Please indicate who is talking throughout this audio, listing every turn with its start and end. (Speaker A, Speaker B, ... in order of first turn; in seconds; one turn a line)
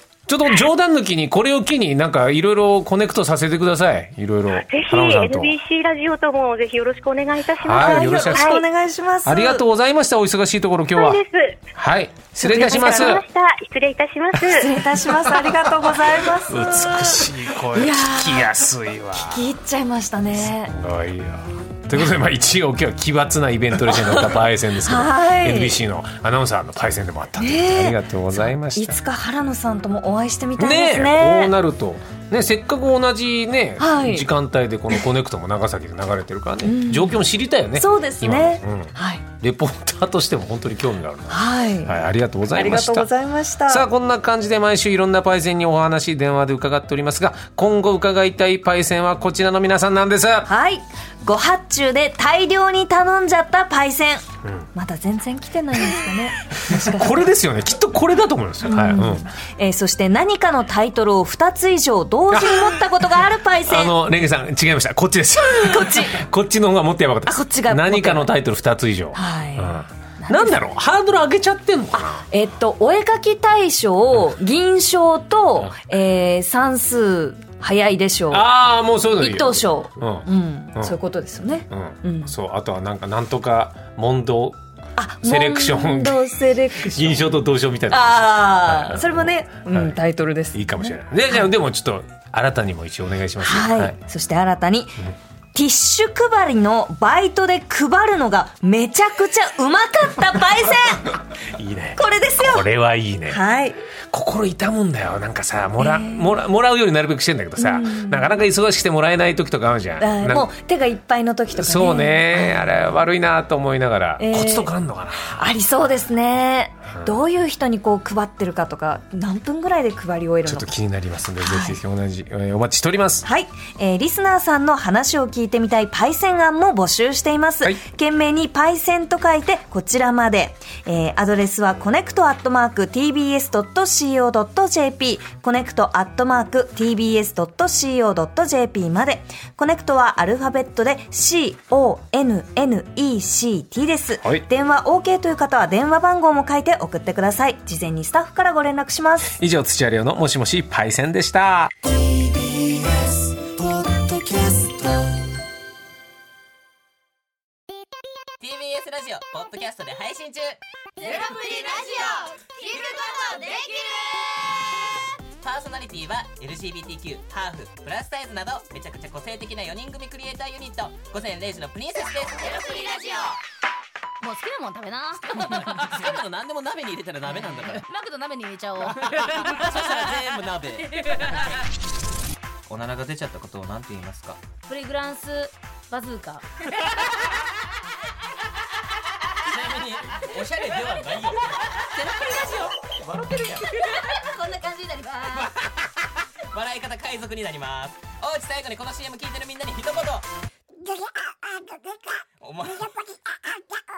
Speaker A: 0.3-5.5
Speaker B: 4.6-8.6
Speaker A: 7.6-8.6
Speaker C: 7.7-9.6
Speaker A: 9.2-11.2
Speaker B: 10.9-11.6
Speaker A: 11.8-13.2
Speaker C: 12.4-13.2
Speaker B: 12.4-14.7
Speaker A: 14.3-19.5
Speaker C: 14.5-18.6
Speaker C: 19.1-20.7
Speaker A: 20.4-29.0
Speaker C: 24.8-25.8
Speaker C: 27.4-28.0
Speaker C: 28.7-31.5
Speaker A: 30.6-43.1
Speaker C: 33.8-34.3
Speaker C: 36.6-37.2
Speaker C: 37.7-39.2
Speaker C: 41.3-42.0
Speaker C: 42.5-43.9
Speaker A: 43.7-50.5
Speaker C: 50.5-57.2
Speaker A: 56.6-59.3
Speaker C: 58.6-63.9
Speaker A: 62.3-62.8
Speaker A: 63.7-72.2
Speaker C: 65.4-66.2
Speaker C: 67.2-68.3
Speaker C: 69.1-70.7
Speaker C: 71.9-78.4
Speaker A: 78.3-81.0
Speaker C: 79.2-82.3
Speaker A: 81.7-84.6
Speaker C: 85.0-87.4
Speaker A: 85.2-86.2
Speaker A: 86.8-90.0
Speaker C: 87.9-91.4
Speaker A: 90.5-94.0
Speaker C: 93.4-101.2
Speaker A: 101.5-103.4
Speaker C: 102.0-102.7
Speaker C: 103.2-103.8
Speaker A: 104.1-110.5
Speaker C: 105.8-106.4
Speaker C: 107.6-108.4
Speaker C: 110.0-113.0
Speaker A: 111.5-115.5
Speaker C: 114.2-120.7
Speaker A: 116.9-117.2
Speaker A: 120.5-123.2
Speaker C: 121.4-121.8
Speaker C: 123.2-149.4
Speaker A: 149.4-155.1
Speaker D: 158.4-162.2
Speaker E: 161.0-164.5
Speaker D: 162.7-163.9
Speaker D: 165.4-173.4
Speaker E: 172.5-173.3
Speaker E: 174.2-176.1
Speaker D: 175.2-177.8
Speaker E: 177.2-180.1
Speaker D: 178.9-181.6
Speaker E: 181.0-181.4
Speaker D: 182.7-184.4
Speaker E: 184.7-186.4
Speaker D: 189.4-194.2
Speaker E: 191.9-192.7
Speaker E: 193.8-195.5
Speaker D: 195.3-200.3
Speaker D: 202.4-203.0